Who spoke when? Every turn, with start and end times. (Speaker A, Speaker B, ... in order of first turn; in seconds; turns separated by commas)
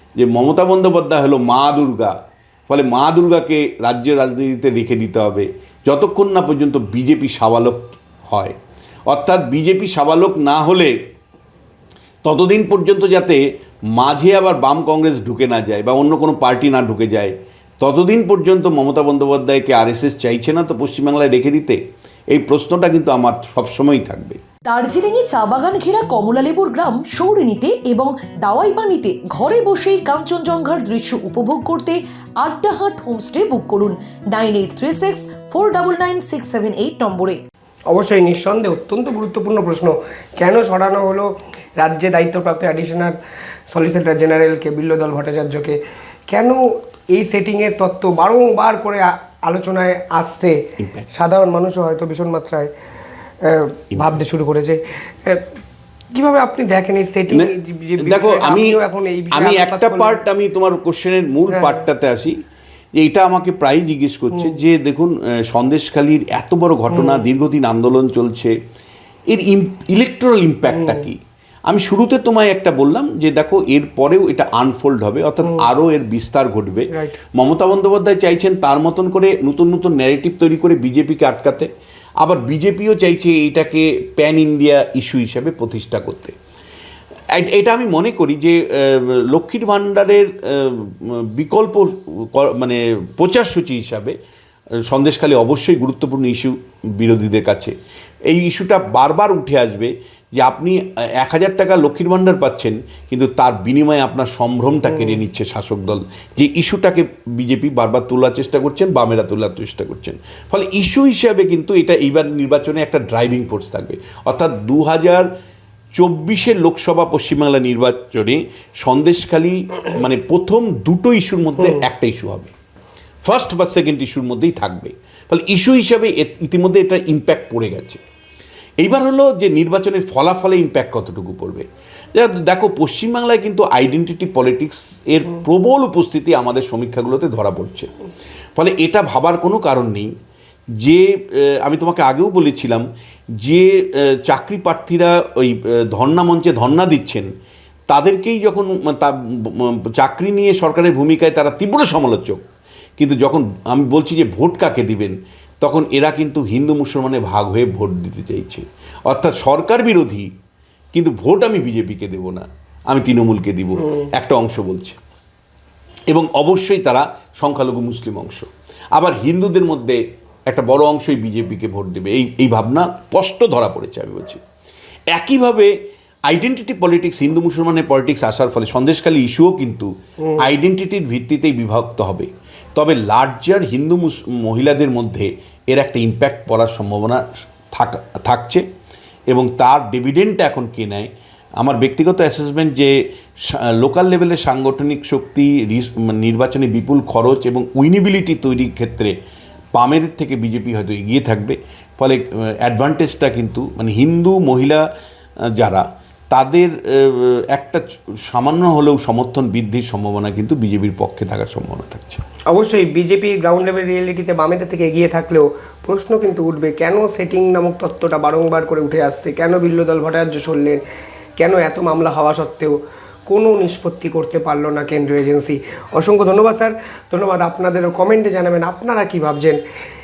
Speaker A: 0.2-2.1, Speaker A: 2.7-8.6, Speaker A: 9.1-10.9, Speaker A: 12.2-13.4, Speaker A: 13.9-21.8, Speaker A: 22.3-24.4, Speaker B: 24.7-37.4, Speaker C: 37.9-43.2, Speaker C: 43.7-50.6, Speaker C: 51.1-52.7, Speaker C: 53.4-55.5, Speaker C: 56.1-60.2, Speaker A: 57.3-58.8, Speaker A: 59.3-62.4, Speaker C: 61.5-61.9, Speaker A: 63.0-68.5, Speaker C: 64.3-64.6, Speaker C: 66.9-67.3, Speaker A: 69.3-81.7, Speaker C: 70.7-71.0, Speaker A: 82.2-86.3, Speaker A: 87.3-94.2, Speaker A: 94.9-97.7, Speaker A: 98.3-115.3, Speaker C: 104.9-105.2, Speaker A: 116.0-122.5, Speaker A: 123.3-128.0, Speaker A: 128.8-137.9, Speaker A: 138.6-140.1, Speaker A: 140.8-142.9, Speaker A: 143.4-147.3, Speaker A: 147.9-152.4, Speaker A: 153.0-160.3, Speaker A: 160.9-165.0, Speaker A: 166.1-174.4, Speaker A: 175.1-175.7, Speaker A: 176.3-188.6, Speaker A: 189.3-192.9, Speaker A: 193.5-199.1, Speaker A: 199.8-204.8, Speaker A: 205.6-212.2, Speaker C: 212.5-220.8, Speaker C: 221.4-229.6